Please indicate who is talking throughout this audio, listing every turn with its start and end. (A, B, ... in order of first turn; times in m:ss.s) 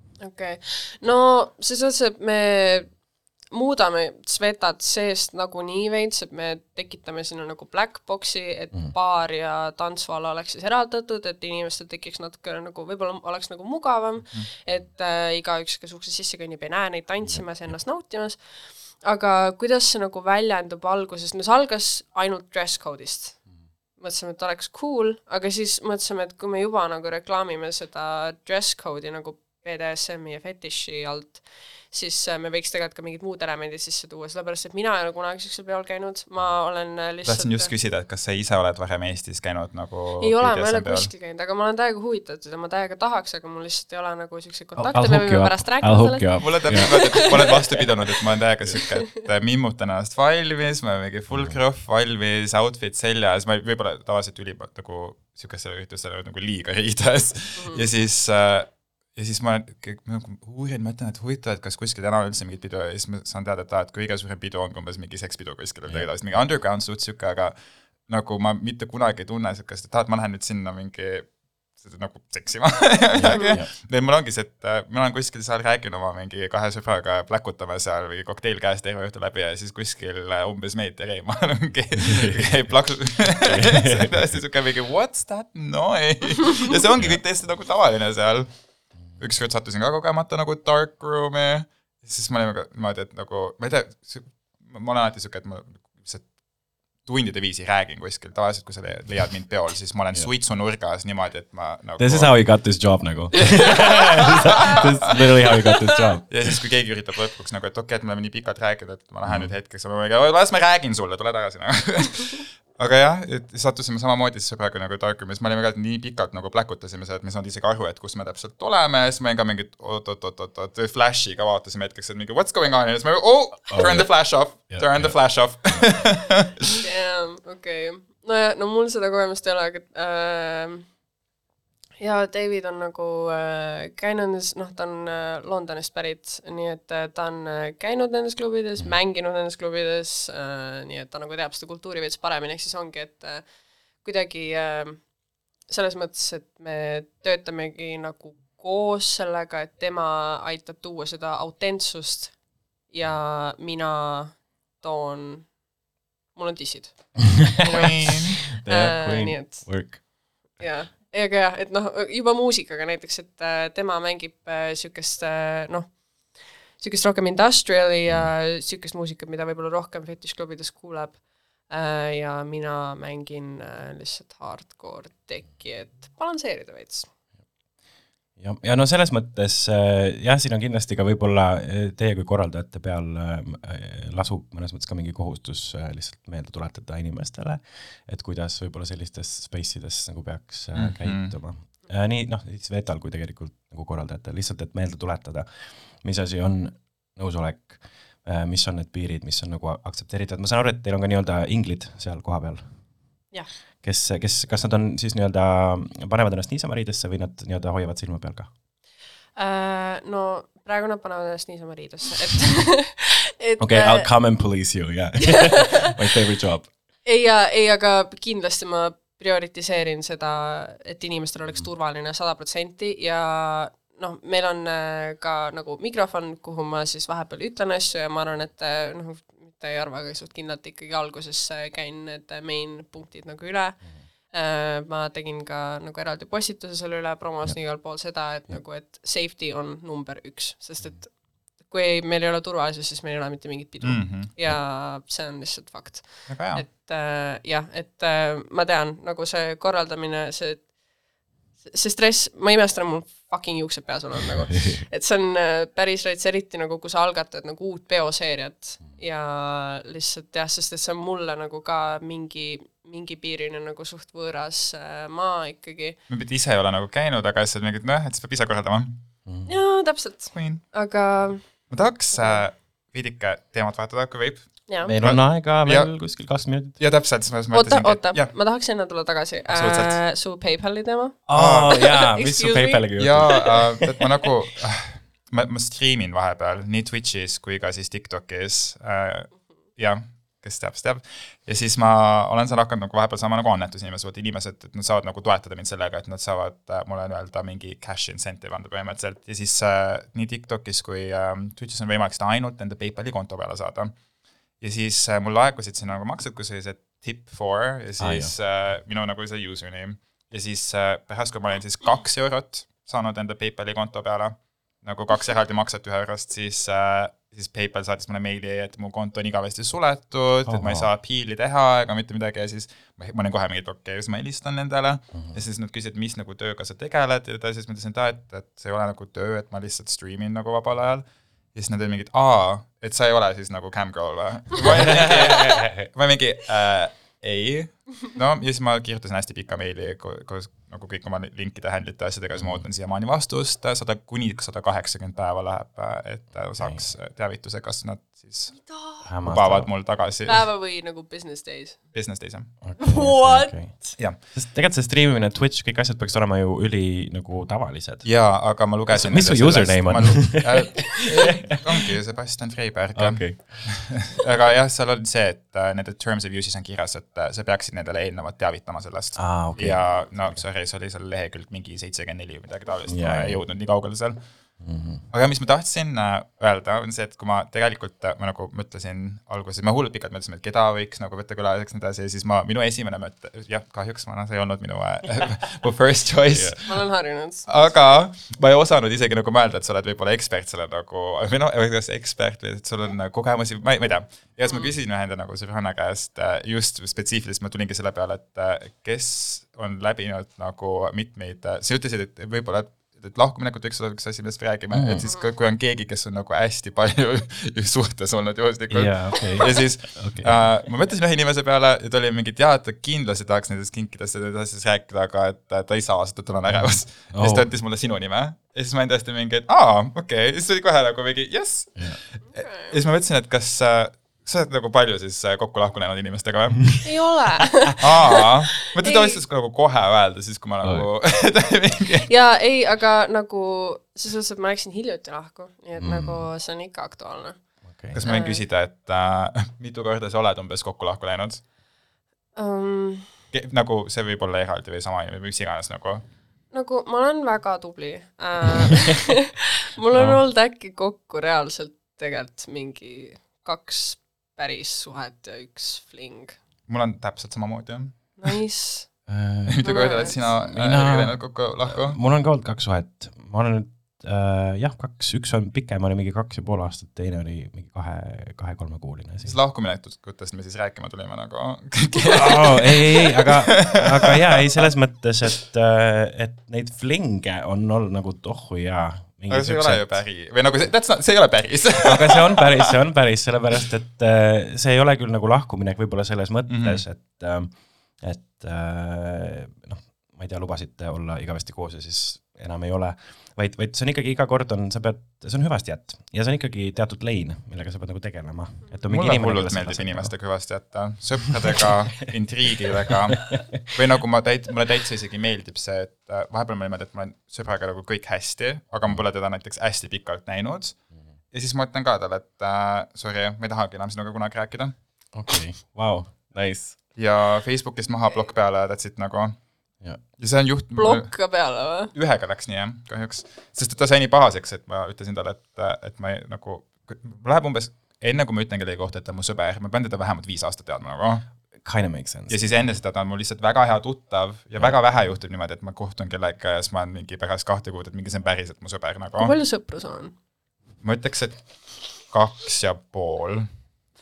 0:00.2-0:37.7 A
0:17.2-0:17.8 B
0:37.2-0:41.1 C
0:40.2-0:47.9 A
0:44.8-0:47.5 B
0:46.4-1:36.4 C
0:51.3-0:51.6 B
0:57.6-0:57.8 A
1:13.1-1:13.7 B
1:22.1-1:22.8 B
1:23.4-1:24.3 B
1:37.0-1:44.8 C
1:42.0-1:46.5 B
1:46.3-2:06.8 C
1:49.3-1:49.5 B
2:03.7-2:05.9 B
2:06.8-2:10.9 A
2:12.0-2:35.6 A
2:36.3-2:40.0 A
2:37.6-2:38.5 C
2:38.6-2:40.6 B
2:40.6-2:57.1 A
2:58.4-3:22.8 B
3:10.7-3:11.4 C
3:23.8-3:28.5 B
3:29.4-3:34.7 A
3:33.6-3:36.7 B
3:35.4-3:35.6 A
3:37.0-4:10.7 A
4:03.8-4:04.3 C
4:06.3-4:06.6 C
4:11.6-4:26.0 A
4:26.1-4:29.0 C
4:29.3-4:29.5 B
4:29.5-4:31.5 A
4:30.3-4:30.7 C
4:31.7-4:38.3 C
4:34.7-4:34.9 A
4:34.9-4:36.8 B
4:37.5-4:43.3 A
4:39.5-4:40.0 C
4:41.3-4:44.0 B
4:41.3-4:41.8 C
4:43.0-5:04.0 C
5:04.6-5:50.5 C
5:08.0-5:08.4 B
5:20.5-5:20.9 B
5:25.1-5:25.4 B
5:34.6-5:35.7 B
5:42.4-5:42.6 B
5:48.7-5:49.0 A
5:49.0-5:49.7 B
5:50.2-5:51.8 A
5:51.9-5:52.6 C
5:52.6-6:01.5 B
5:52.8-5:54.0 A
5:58.0-6:26.8 C
6:03.0-6:04.0 B
6:09.2-6:10.4 B
6:12.9-6:13.4 B
6:14.6-6:15.1 B
6:26.3-6:26.6 B
6:26.6-6:28.0 A
6:27.5-7:06.9 C
6:44.7-6:45.1 B
6:48.7-6:50.4 B
6:56.5-6:57.5 B
7:02.2-7:02.8 A
7:06.8-7:08.0 A
7:07.8-7:12.1 C
7:08.8-7:09.2 A
7:10.6-7:10.9 B
7:12.1-7:18.4 A
7:15.8-7:16.3 B
7:17.7-7:18.0 B
7:17.9-7:21.4 C
7:22.4-7:23.1 A
7:23.3-7:26.0 C
7:26.5-7:36.4 A
7:29.9-7:30.2 B
7:36.7-7:38.3 C
7:38.2-7:38.9 A
7:39.1-7:49.4 B
7:39.5-7:42.0 C
7:39.6-7:40.2 A
7:49.2-7:54.4 C
7:52.1-7:59.9 B
7:59.3-8:02.6 C
8:01.8-8:20.2 B
8:06.5-8:06.8 C
8:18.9-8:34.8 C
8:23.3-8:23.6 B
8:35.1-8:36.8 B
8:37.0-8:51.3 C
8:40.8-8:41.9 A
8:51.6-8:52.6 B
8:52.3-8:59.4 C
8:59.2-9:00.1 A
9:00.8-9:03.5 C